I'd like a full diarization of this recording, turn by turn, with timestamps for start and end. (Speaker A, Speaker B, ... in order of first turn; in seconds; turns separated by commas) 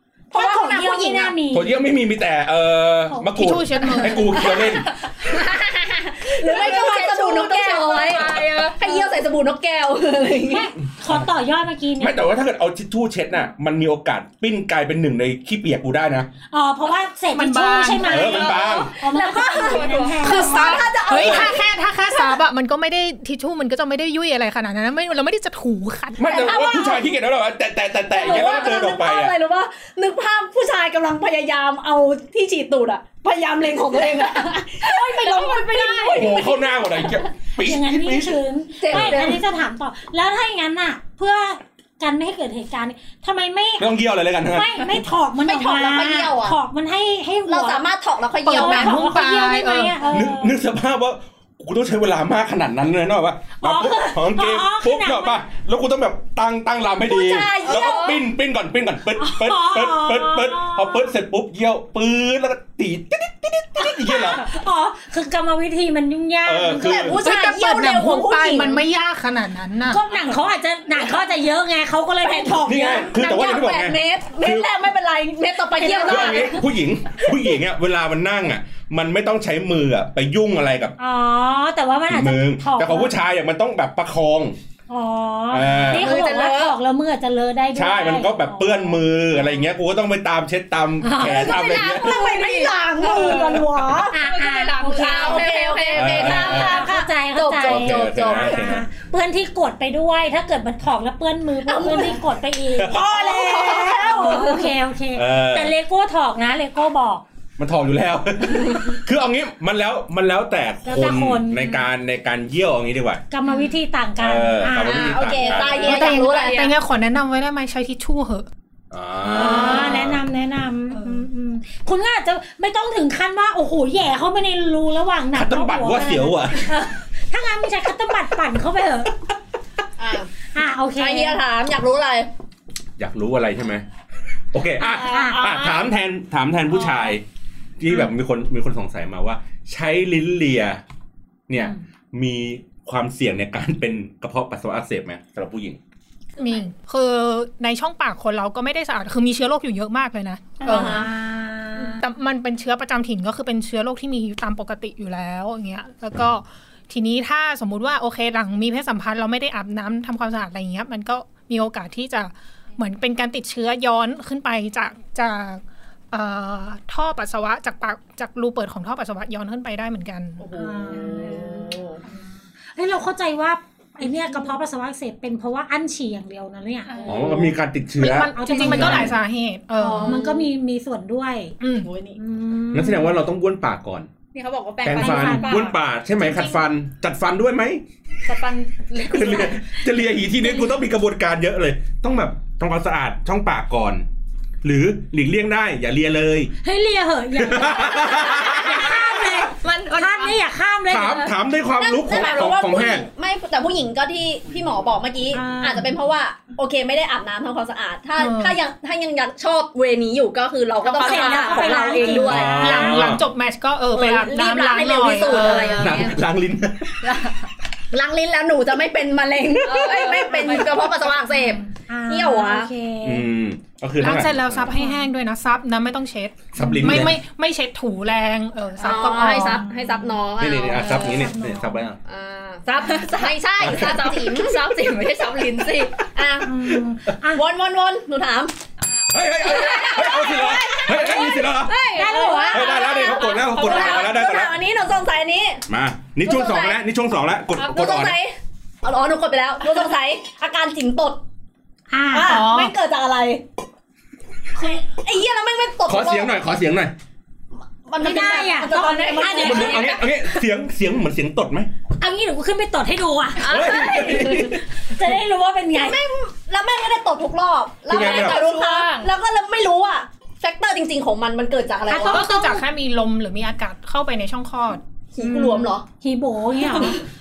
Speaker A: 0.3-1.4, Speaker B: 0.3-1.7, Speaker C: 1.5-4.9, Speaker B: 3.1-3.4, Speaker D: 3.3-4.5, Speaker A: 4.3-10.7, Speaker E: 6.4-8.8, Speaker B: 10.4-12.2, Speaker C: 12.0-16.3, Speaker B: 16.5-20.9, Speaker D: 17.3-18.3, Speaker C: 18.0-18.9, Speaker A: 18.3-22.4, Speaker E: 19.3-20.2, Speaker D: 20.2-26.5, Speaker C: 21.2-21.5, Speaker C: 26.2-29.3, Speaker A: 26.2-27.1, Speaker A: 28.1-37.2, Speaker E: 35.2-35.9, Speaker B: 35.4-36.2, Speaker C: 36.0-39.4, Speaker B: 37.6-47.8, Speaker A: 38.8-39.4, Speaker C: 43.8-45.0, Speaker A: 45.4-46.6, Speaker A: 47.5-49.1, Speaker D: 48.4-50.0, Speaker B: 48.5-50.6, Speaker C: 50.1-64.5, Speaker B: 53.6-55.4, Speaker A: 57.0-58.2, Speaker B: 59.1-61.1, Speaker B: 63.8-67.2, Speaker C: 66.4-67.2, Speaker A: 66.7-68.8, Speaker D: 67.2-70.0, Speaker B: 69.9-72.8, Speaker A: 72.2-76.6, Speaker C: 72.6-74.7, Speaker B: 75.8-76.5, Speaker C: 76.0-81.0, Speaker B: 81.0-83.1, Speaker C: 82.1-84.6, Speaker B: 84.9-89.7, Speaker C: 85.5-86.2, Speaker E: 86.0-86.7, Speaker A: 86.0-86.7, Speaker C: 87.7-92.2, Speaker B: 91.0-91.6, Speaker A: 91.3-94.2, Speaker E: 91.5-96.7, Speaker B: 94.0-95.5, Speaker A: 94.8-98.8, Speaker C: 95.9-96.8, Speaker B: 96.1-107.2, Speaker C: 97.6-98.8, Speaker A: 101.6-102.2, Speaker A: 102.8-104.7, Speaker C: 105.1-105.7, Speaker C: 107.6-113.2, Speaker B: 110.8-111.8, Speaker B: 113.3-115.4, Speaker C: 114.2-115.9, Speaker A: 114.8-116.7, Speaker E: 115.5-116.7, Speaker D: 115.8-118.5, Speaker C: 118.9-120.2, Speaker B: 119.2-129.2, Speaker D: 120.9-121.2, Speaker C: 125.3-126.7, Speaker A: 130.0-130.3, Speaker B: 130.5-131.4, Speaker A: 130.9-132.3, Speaker C: 133.0-133.8, Speaker C: 134.5-137.2, Speaker B: 134.8-135.8, Speaker C: 137.8-140.8, Speaker C: 141.5-145.8, Speaker D: 146.4-151.1, Speaker A: 150.6-151.1, Speaker B: 150.7-152.0, Speaker D: 151.9-170.5, Speaker A: 170.4-172.0, Speaker B: 170.5-177.5, Speaker E: 170.9-171.7, Speaker E: 176.9-177.5, Speaker C: 177.0-179.1, Speaker D: 178.0-180.2, Speaker B: 178.2-179.2, Speaker A: 179.8-180.4, Speaker B: 179.9-181.6, Speaker D: 181.6-181.9, Speaker A: 181.8-182.2, Speaker B: 182.2-183.2, Speaker C: 182.7-184.1, Speaker E: 184.3-185.8, Speaker C: 184.8-187.8, Speaker B: 184.9-185.7, Speaker E: 188.2-189.8, Speaker C: 189.0-194.0, Speaker C: 194.6-196.5, Speaker B: 196.6-201.3, Speaker C: 197.3-199.4, Speaker E: 198.7-200.4, Speaker C: 200.9-203.0, Speaker A: 201.8-212.7, Speaker B: 205.3-205.9, Speaker D: 208.2-208.6, Speaker E: 210.8-212.3, Speaker B: 210.9-213.1, Speaker C: 212.2-213.2, Speaker D: 212.6-215.9, Speaker A: 213.9-216.2, Speaker E: 215.1-216.1, Speaker C: 215.7-217.0, Speaker E: 217.0-217.4, Speaker A: 217.9-222.7, Speaker E: 219.6-221.5, Speaker B: 221.8-223.2, Speaker C: 223.0-224.7, Speaker D: 224.0-229.6, Speaker B: 224.7-225.1, Speaker C: 226.5-227.2, Speaker B: 226.6-227.1, Speaker A: 228.8-231.1, Speaker B: 229.3-231.8, Speaker C: 230.4-232.0, Speaker A: 232.0-234.7, Speaker E: 232.7-236.0, Speaker A: 236.1-236.7, Speaker B: 236.4-237.4, Speaker A: 237.3-238.5, Speaker E: 238.9-240.2, Speaker C: 239.1-241.7, Speaker A: 239.4-245.6, Speaker E: 241.7-244.2, Speaker B: 241.9-242.9, Speaker C: 242.5-244.5, Speaker C: 245.7-248.2, Speaker A: 246.2-246.8, Speaker A: 247.6-251.2, Speaker B: 251.9-252.5, Speaker A: 252.1-253.4, Speaker E: 252.2-252.7, Speaker A: 254.6-256.4, Speaker C: 255.8-256.9, Speaker A: 257.9-260.0, Speaker B: 258.0-259.9, Speaker E: 258.7-259.9, Speaker C: 259.4-261.7, Speaker B: 262.0-266.0, Speaker E: 263.4-264.5, Speaker C: 263.4-264.6, Speaker A: 265.7-272.3, Speaker C: 267.9-268.4, Speaker E: 267.9-269.1, Speaker B: 271.9-272.6, Speaker D: 271.9-274.8, Speaker A: 275.1-275.9, Speaker B: 275.2-277.0